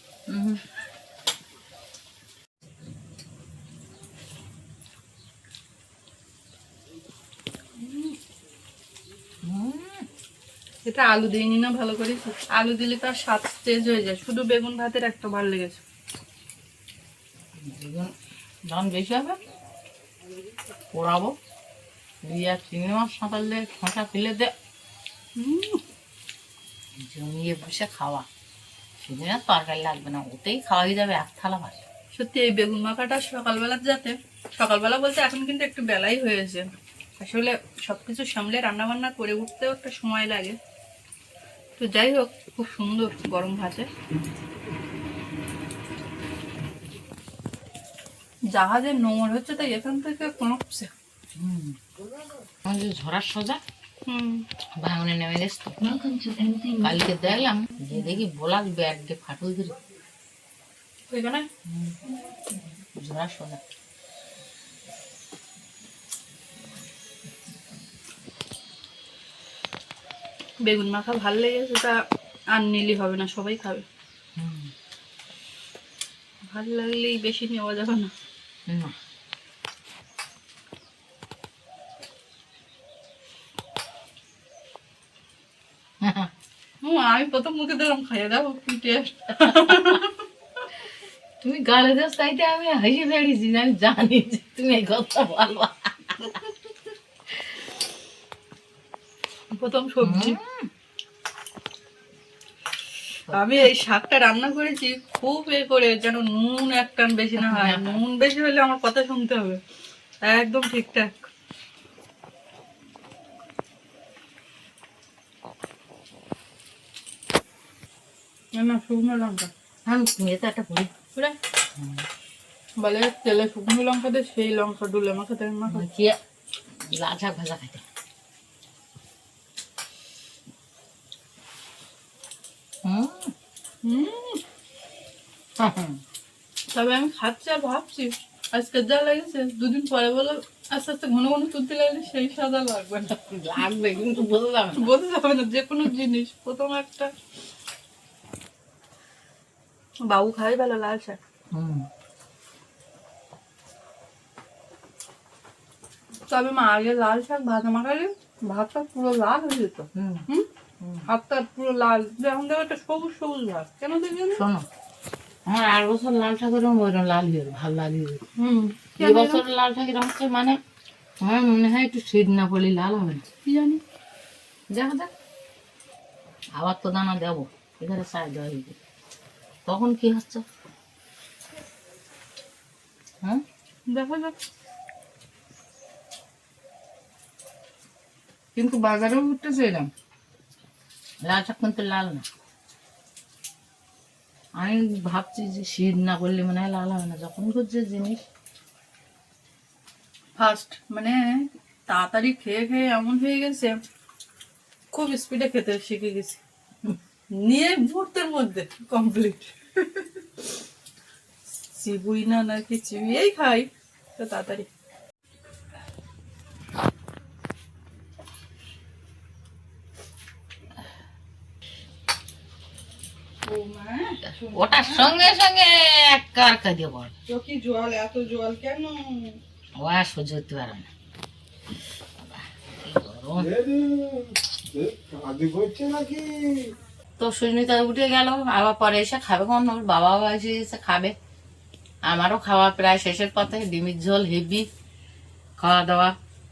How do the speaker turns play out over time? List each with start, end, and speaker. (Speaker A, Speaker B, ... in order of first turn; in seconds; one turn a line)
Speaker A: 0.3-0.6
Speaker B: 7.8-8.2
Speaker A: 9.4-10.1
Speaker B: 10.8-15.8
Speaker A: 17.6-18.1
Speaker A: 18.7-19.4
Speaker A: 20.9-21.3
Speaker A: 22.2-24.5
Speaker B: 25.4-25.8
Speaker A: 26.9-28.2
Speaker A: 29.0-31.8
Speaker B: 32.2-40.6
Speaker B: 41.8-43.9
Speaker B: 48.5-50.9
Speaker A: 51.4-51.8
Speaker A: 52.6-53.6
Speaker B: 54.1-54.4
Speaker A: 54.8-55.9
Speaker B: 56.1-56.7
Speaker A: 56.8-59.8
Speaker B: 61.1-61.5
Speaker A: 61.6-62.0
Speaker A: 63.0-63.6
Speaker B: 70.6-72.0
Speaker B: 72.5-73.8
Speaker A: 74.3-74.7
Speaker B: 76.5-78.1
Speaker A: 78.7-78.9
Speaker A: 86.0-86.3
Speaker B: 86.8-90.7
Speaker A: 89.5-90.0
Speaker A: 91.4-96.4
Speaker B: 99.6-100.4
Speaker A: 100.0-100.7
Speaker A: 103.3-103.7
Speaker B: 103.3-109.6
Speaker A: 107.4-108.0
Speaker B: 110.2-111.3
Speaker B: 118.5-119.5
Speaker A: 119.8-120.9
Speaker A: 121.8-122.0
Speaker B: 122.8-125.8
Speaker A: 125.7-126.2
Speaker A: 126.8-127.8
Speaker A: 132.8-133.3
Speaker B: 133.8-134.4
Speaker A: 135.6-136.0
Speaker B: 136.7-143.2
Speaker A: 143.1-144.9
Speaker B: 144.8-147.1
Speaker B: 150.1-151.2
Speaker A: 151.5-151.9
Speaker B: 156.3-160.5
Speaker A: 159.9-160.2
Speaker A: 160.8-161.1
Speaker B: 161.1-164.4
Speaker A: 164.3-164.7
Speaker A: 165.4-168.2
Speaker B: 168.4-169.4
Speaker A: 169.0-170.6
Speaker A: 171.2-173.2
Speaker B: 173.4-173.8
Speaker A: 174.7-175.1
Speaker A: 176.5-178.8
Speaker A: 179.7-180.4
Speaker B: 183.9-184.3
Speaker A: 188.6-189.9
Speaker A: 191.2-192.2
Speaker A: 194.6-198.2
Speaker B: 200.4-203.8
Speaker B: 204.9-206.4
Speaker B: 207.4-210.1
Speaker B: 211.7-214.7
Speaker B: 223.4-225.3
Speaker A: 224.5-227.1
Speaker B: 227.3-229.4
Speaker A: 229.8-230.9
Speaker A: 232.2-233.5
Speaker C: 233.4-236.7
Speaker A: 237.2-241.1
Speaker A: 242.1-244.7
Speaker A: 245.6-246.1